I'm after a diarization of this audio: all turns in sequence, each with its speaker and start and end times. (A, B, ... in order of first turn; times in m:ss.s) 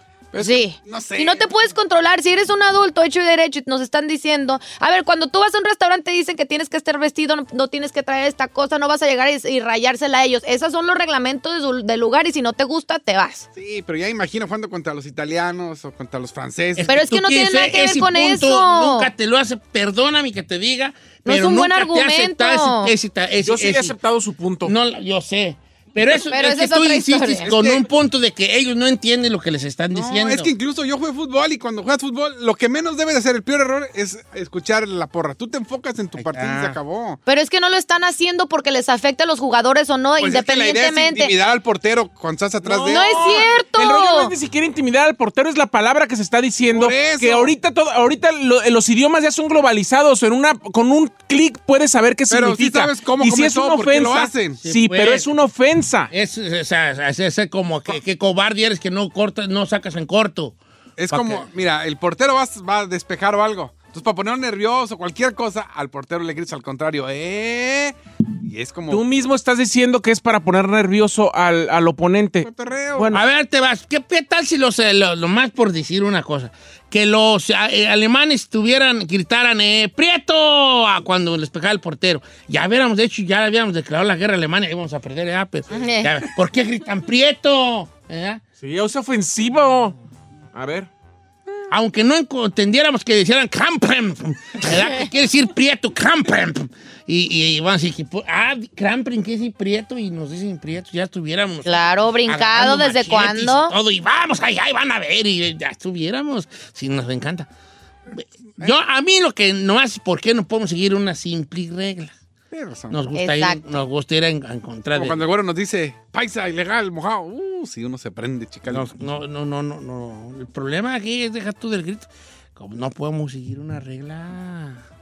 0:00.3-0:01.5 A
0:00.4-0:13.5 B
0:13.6-0:17.1 A
0:16.8-0:24.0 C
0:16.9-0:19.1 B
0:21.2-0:22.9 B
0:23.4-0:24.7 D
0:24.6-0:30.5 C
0:26.3-0:27.5 B
0:27.4-0:27.8 A
0:29.9-0:37.2 A
0:36.2-0:36.8 C
0:37.3-0:41.3 B
0:40.2-0:43.4 A
0:42.6-0:56.1 D
0:42.9-0:44.3 B
0:46.7-0:47.5 A
0:52.3-0:54.6 A
0:54.6-0:55.3 C
0:56.1-1:00.6 C
1:01.0-1:09.0 A
1:01.1-1:01.5 C
1:08.9-1:13.2 D
1:12.4-1:13.1 A
1:13.1-1:28.4 C
1:25.7-1:26.1 B
1:28.6-1:29.9 D
1:30.5-1:30.9 D
1:31.7-1:47.5 C
1:41.6-1:43.7 B
1:48.2-1:52.1 C
1:52.5-1:53.1 A
1:52.9-1:55.2 C
1:53.1-1:53.8 B
1:54.9-1:58.9 A
1:58.7-2:04.8 C